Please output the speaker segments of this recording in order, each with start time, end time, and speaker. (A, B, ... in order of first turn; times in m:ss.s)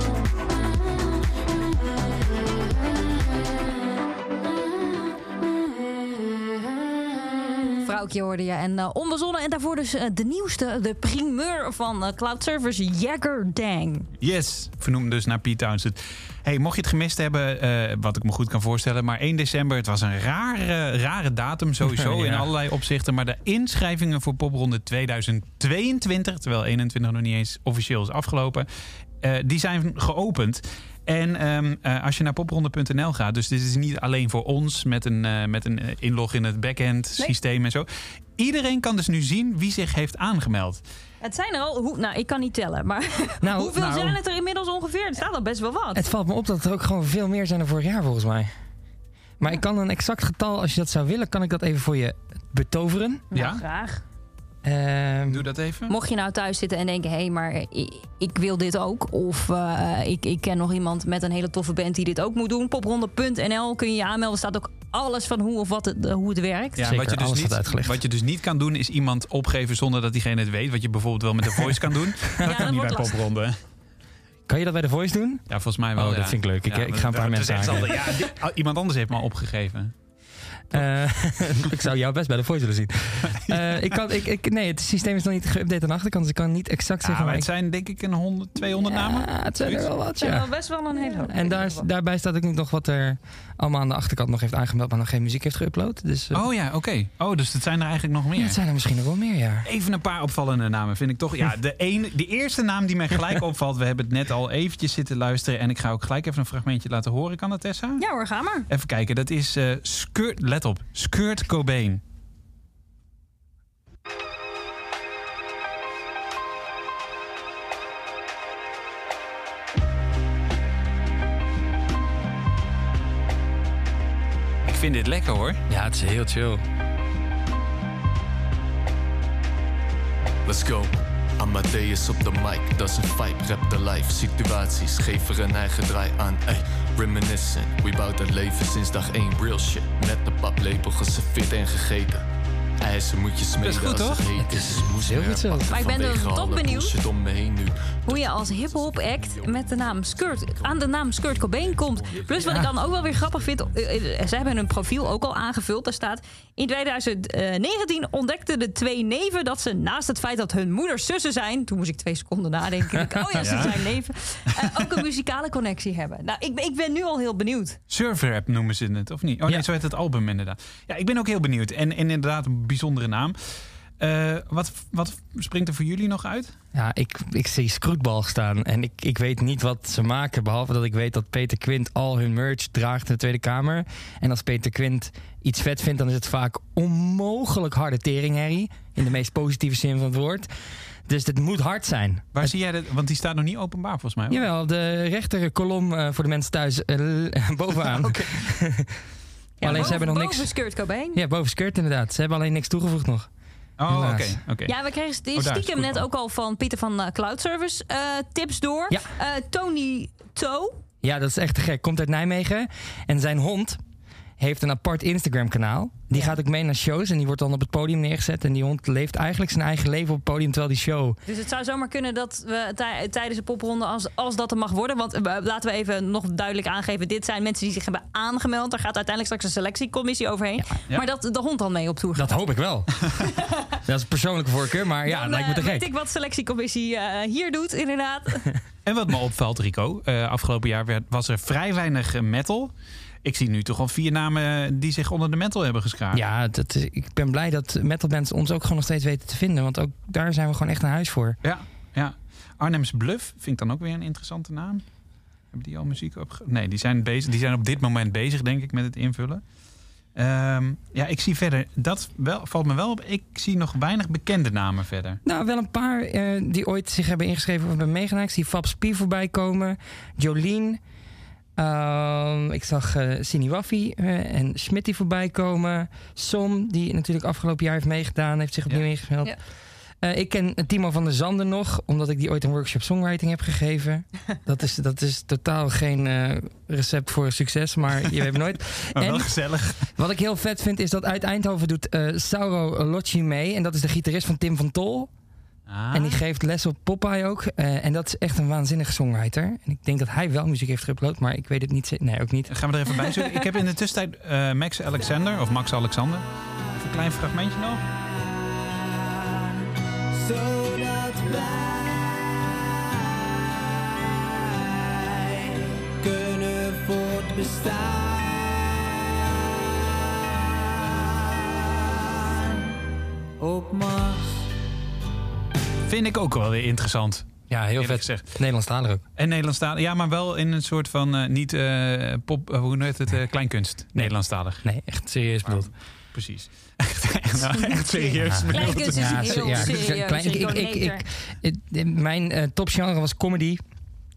0:07.8-0:14.1 A
0:14.2-0:28.7 B
0:21.8-0:22.5 C
0:29.2-0:37.9 B
0:38.4-0:40.8 B
0:41.2-0:46.1 A
0:43.4-0:44.0 C
0:43.8-0:44.2 B
0:45.9-0:48.5 C
0:49.4-0:53.2 C
0:53.3-0:54.0 A
0:53.3-0:53.6 B
0:54.6-0:55.5 C
0:55.3-0:55.9 B
0:55.9-1:06.8 A
1:06.8-1:13.6 B
1:06.8-1:08.0 C
1:12.4-1:13.1 A
1:14.5-1:18.2 C
1:15.5-1:19.9 B
1:20.7-1:27.5 C
1:21.4-1:21.7 B
1:23.5-1:24.0 B
1:27.0-1:29.9 B
1:28.8-1:30.5 C
1:30.2-1:31.8 A
1:31.2-1:36.4 C
1:36.3-1:38.6 B
1:38.4-1:39.7 C
1:39.6-1:48.0 B
1:48.0-1:48.7 A
1:48.7-1:52.0 B
2:04.7-2:05.6 B
2:05.7-2:06.6 C
2:10.5-2:22.3 D
2:22.8-2:35.2 D
2:23.6-2:24.2 B
2:24.4-2:25.7 C
2:25.7-2:26.9 A
2:28.1-2:47.8 A
2:32.4-2:32.7 B
2:43.4-2:43.9 B
2:47.9-2:53.4 B
2:54.0-2:56.5 B
2:56.7-3:10.5 C
3:11.1-3:12.5 C
3:12.4-3:14.4 B
3:14.3-3:18.9 C
3:17.8-3:18.5 B
3:19.6-3:21.2 A
3:19.6-3:20.0 B
3:19.6-3:20.5 C
3:21.1-3:23.3 C
3:23.8-3:24.7 B
3:23.9-3:24.4 C
3:24.7-3:30.8 A
3:25.3-3:26.0 B
3:31.0-3:33.8 C
3:34.4-3:41.2 C
3:41.3-3:52.4 A
3:52.2-3:53.1 C
3:53.9-3:55.9 C
3:55.1-3:58.5 A
3:58.8-4:02.7 B
4:03.2-4:06.2 B
4:06.1-4:11.4 C
4:11.4-4:14.8 B
4:15.5-4:19.4 B
4:20.2-4:25.2 B
4:25.2-4:30.8 C
4:31.6-4:39.4 C
4:40.0-4:55.1 C
4:49.0-4:49.9 B
4:55.7-4:56.2 B
4:55.9-5:02.5 C
5:02.5-5:07.8 B
5:10.2-5:12.6 E
5:14.9-5:18.8 E
5:23.4-5:24.4 E
5:25.9-5:28.4 B
5:27.5-5:29.0 C
5:29.2-5:34.7 B
5:34.0-5:35.7 C
5:35.4-5:39.9 B
5:38.1-5:43.6 C
5:38.5-5:41.0 A